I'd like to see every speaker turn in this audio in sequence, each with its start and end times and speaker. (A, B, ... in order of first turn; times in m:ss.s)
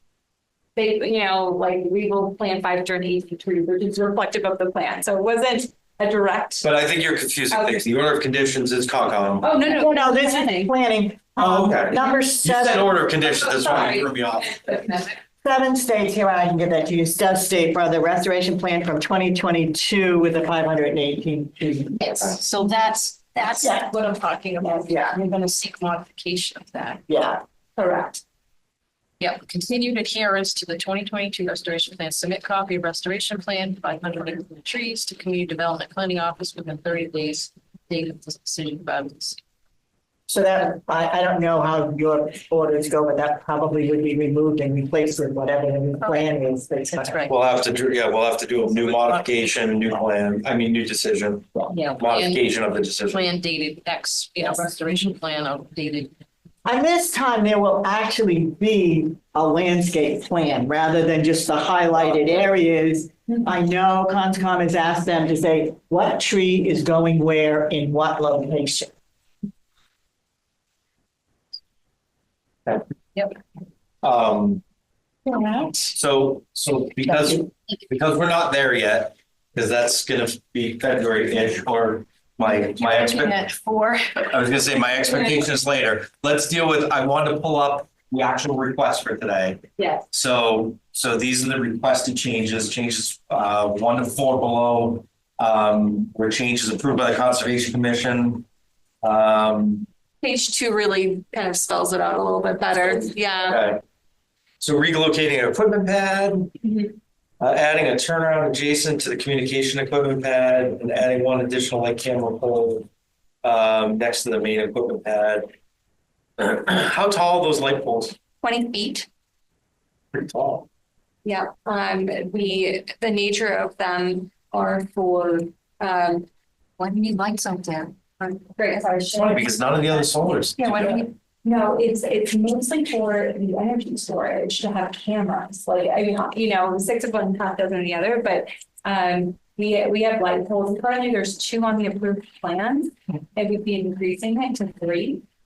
0:00.8-0:06.7 A
0:06.6-0:09.5 B
0:07.5-0:07.8 A
0:09.4-0:10.7 A
0:09.7-0:13.0 C
0:11.4-0:14.6 B
0:13.2-0:15.2 A
0:15.4-0:22.3 C
0:22.0-0:27.0 D
0:23.6-0:23.9 C
0:24.8-0:25.2 C
0:27.1-0:27.4 C
0:27.8-0:28.2 A
0:29.2-0:39.4 D
0:40.3-0:47.2 C
0:46.0-0:46.3 D
0:46.9-0:47.3 D
0:47.3-0:53.2 B
0:48.7-0:49.6 D
0:51.7-0:52.4 D
0:53.1-0:56.1 D
0:56.6-1:08.9 C
1:14.0-1:14.6 B
1:15.3-1:15.8 D
1:15.8-1:23.4 B
1:22.6-1:24.3 D
1:24.3-1:38.5 B
1:29.8-1:30.0 A
1:39.0-1:39.9 B
1:40.2-1:43.6 A
1:42.7-1:43.8 B
1:44.6-1:46.5 B
1:46.6-1:46.9 A
1:47.4-1:52.9 B
1:53.4-1:55.5 B
1:56.4-1:58.2 B
1:58.4-1:59.1 A
2:00.1-2:00.7 B
2:01.2-2:06.3 A
2:06.8-2:08.5 D
2:08.6-2:09.9 A
2:09.1-2:10.6 B
2:10.6-2:25.2 A
2:10.6-2:11.1 D